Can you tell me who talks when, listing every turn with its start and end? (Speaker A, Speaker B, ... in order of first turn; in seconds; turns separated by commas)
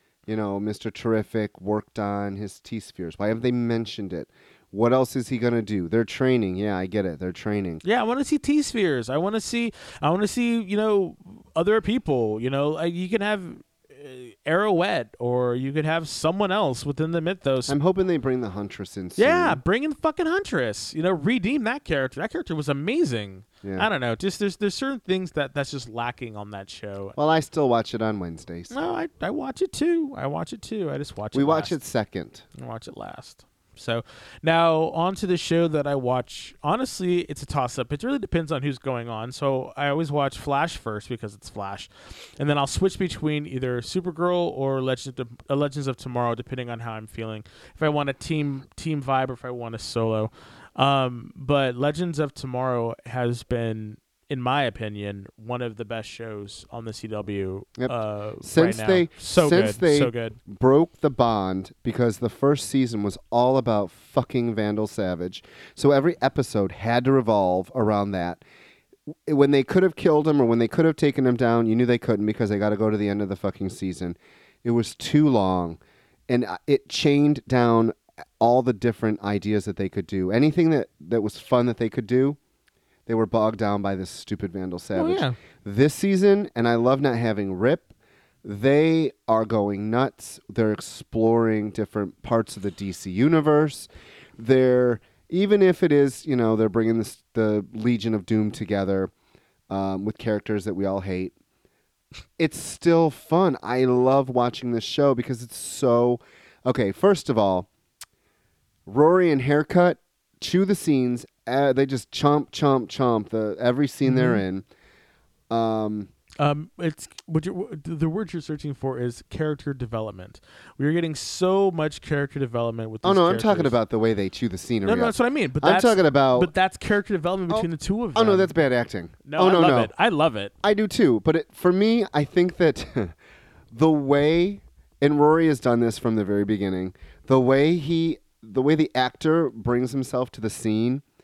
Speaker A: 0.3-7.8, Speaker B: 7.8-17.8, Speaker A: 17.7-19.6, Speaker B: 19.2-27.2, Speaker A: 23.6-23.9, Speaker A: 27.2-28.7, Speaker B: 28.7-31.8, Speaker A: 31.3-32.5, Speaker B: 32.6-60.4, Speaker A: 57.8-68.4, Speaker A: 69.3-82.4, Speaker A: 83.1-87.9, Speaker B: 85.0-85.4, Speaker A: 88.4-99.1, Speaker A: 99.7-101.3, Speaker A: 102.4-107.7, Speaker A: 108.9-114.7, Speaker B: 114.0-114.4, Speaker A: 115.5-116.1, Speaker B: 116.4-123.8, Speaker A: 123.0-126.5, Speaker B: 124.8-128.6, Speaker A: 127.5-129.9, Speaker B: 129.2-130.5, Speaker A: 130.6-133.2, Speaker A: 133.7-141.0